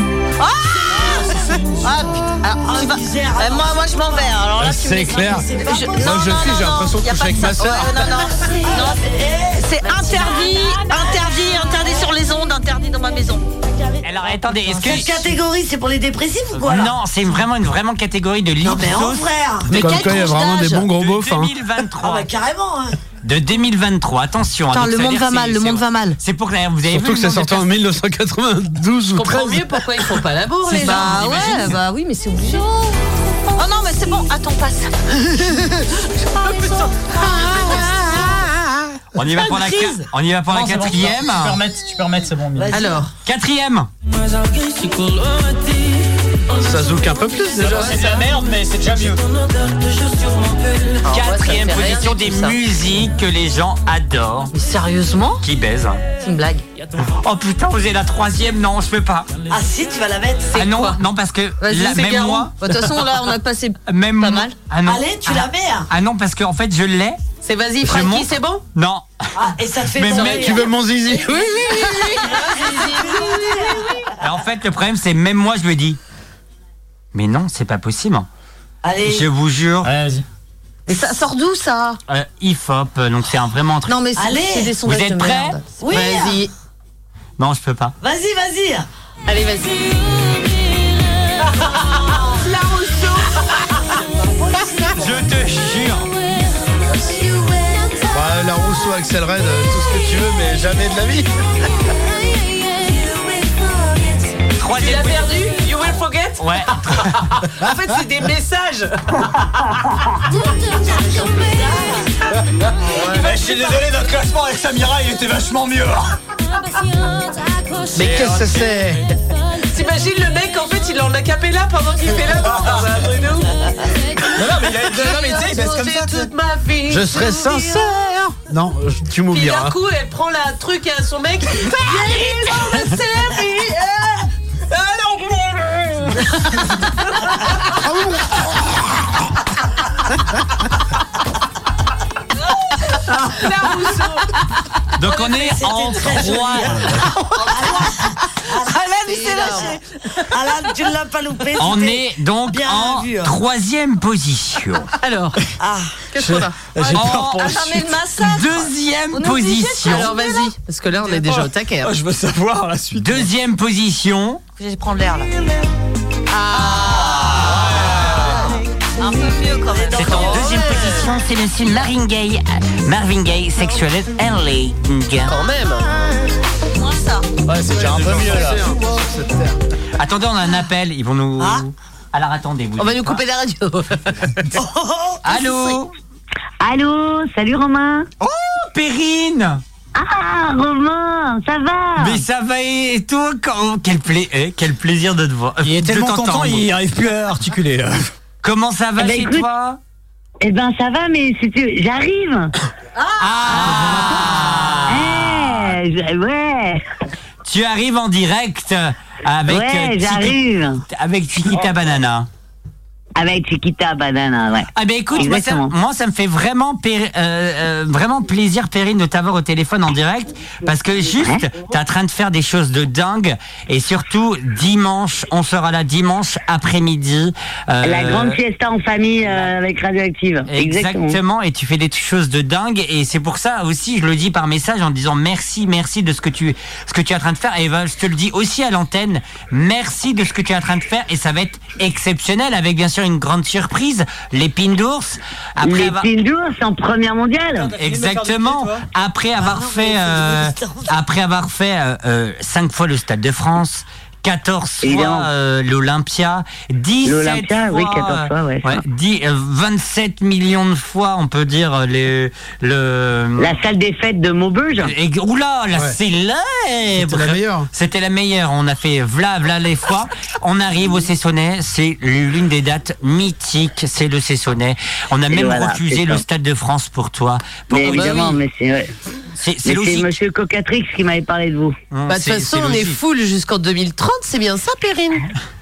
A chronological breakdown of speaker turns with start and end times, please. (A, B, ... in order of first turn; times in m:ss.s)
0:00.4-0:13.5 A
0:00.9-0:01.3 B
0:01.0-0:02.0 C
0:01.9-0:06.6 B
0:04.6-0:08.1 D
0:08.4-0:11.3 B
0:09.8-0:10.6 E
0:13.8-0:17.0 B
0:14.0-0:15.4 F
0:16.5-0:19.3 F
0:18.6-0:19.8 B
0:19.7-0:21.6 D
0:19.7-0:20.9 A
0:20.9-0:22.3 F
0:22.0-0:23.0 B
0:23.2-0:27.8 F
0:24.7-0:26.2 A
0:26.8-0:30.2 D
0:29.1-0:31.4 E
0:30.6-0:33.0 A
0:30.9-0:31.7 F
0:33.6-0:38.5 A
0:39.2-0:41.6 F
0:40.5-0:42.8 C
0:42.6-0:43.0 B
0:42.7-0:43.1 E
0:43.2-0:43.9 F
0:46.5-0:48.3 D
0:47.6-0:49.2 C
0:47.6-0:48.3 E
0:51.0-0:52.6 E
0:51.1-0:54.5 F
0:54.5-0:55.4 A
0:55.4-0:56.0 F
0:56.2-0:56.6 A
0:57.0-0:59.3 F
0:59.5-1:00.6 B
1:00.5-1:01.0 E
1:00.5-1:02.5 F
1:01.6-1:04.6 A
1:03.9-1:07.2 F
1:04.8-1:05.9 B
1:07.4-1:08.6 E
1:07.8-1:09.2 F
1:09.4-1:10.8 B
1:09.9-1:10.7 F
1:10.3-1:12.2 D
1:11.6-1:12.9 E
1:12.0-1:14.0 B
1:12.3-1:13.7 A
1:14.2-1:16.0 F
1:17.1-1:18.3 F
1:18.8-1:19.3 B
1:19.0-1:19.9 F
1:19.8-1:20.3 C
1:20.9-1:22.0 A
1:22.1-1:24.0 F
1:23.9-1:25.4 A
1:24.2-1:24.8 B
1:24.6-1:26.5 E
1:24.8-1:25.6 F
1:25.8-1:26.4 B
1:27.4-1:28.0 F
1:28.0-1:28.9 B
1:29.3-1:30.0 E
1:32.4-1:33.4 E
1:34.9-1:36.1 F
1:38.1-1:41.3 D
1:44.6-1:45.4 F
1:44.7-1:49.0 E
1:46.4-1:47.2 F
1:51.6-1:52.0 B
1:52.8-1:56.2 C
1:58.0-1:58.6 C
1:58.0-1:59.0 E
1:58.0-1:59.0 D
1:59.7-2:08.0 E
2:02.5-2:02.8 C
2:04.3-2:06.3 C
2:06.9-2:09.8 D
2:09.3-2:14.2 E
2:14.7-2:16.3 C
2:17.8-2:18.4 D
2:23.3-2:24.3 E
2:25.0-2:26.9 F
2:25.1-2:25.6 E
2:25.4-2:26.9 B
2:27.4-2:33.4 B
2:27.5-2:27.8 E
2:29.0-2:29.8 E
2:29.2-2:29.6 A
2:31.6-2:34.9 F
2:35.0-2:35.5 E
2:35.6-2:36.0 B
2:36.1-2:36.7 E
2:36.2-2:38.0 C
2:36.8-2:40.5 A
2:36.9-2:37.6 F
2:38.2-2:40.1 F
2:39.8-2:41.9 E
2:41.1-2:43.3 C
2:43.0-2:44.4 F
2:44.6-2:45.3 A
2:46.3-2:47.4 E
2:46.8-2:48.4 F
2:49.0-2:50.8 A
2:49.9-2:55.3 F
2:55.3-2:55.9 E
2:56.7-2:57.3 A
2:57.5-2:58.7 C
2:57.5-2:59.6 D
3:00.0-3:03.2 F
3:02.8-3:04.4 E
3:04.5-3:05.2 B
3:05.2-3:05.9 F
3:06.6-3:08.1 G
3:08.5-3:09.6 F
3:10.0-3:12.2 G
3:12.0-3:16.7 F
3:15.6-3:18.1 C
3:18.4-3:19.8 F
3:19.0-3:19.5 G
3:20.4-3:22.5 G
3:23.2-3:25.8 F
3:23.9-3:24.6 C
3:24.9-3:26.8 G
3:27.5-3:32.3 F
3:29.5-3:30.8 G
3:33.2-3:35.7 G
3:34.7-3:48.4 F
3:41.2-3:41.5 G
3:47.8-3:51.2 G
3:49.3-3:49.5 F
3:50.5-4:06.1 F
4:05.6-4:07.7 G
4:07.5-4:08.9 C
4:07.8-4:23.6 F
4:09.4-4:10.9 B
4:14.8-4:15.3 G
4:17.0-4:18.8 G
4:23.4-4:24.9 G
4:24.8-4:38.4 F
4:25.7-4:26.0 D
4:26.9-4:27.7 D
4:35.3-4:36.2 G
4:37.7-4:38.9 G
4:37.8-4:38.4 E
4:39.4-4:40.2 F
4:39.6-4:41.8 G
4:41.9-4:43.0 F
4:42.1-4:45.3 E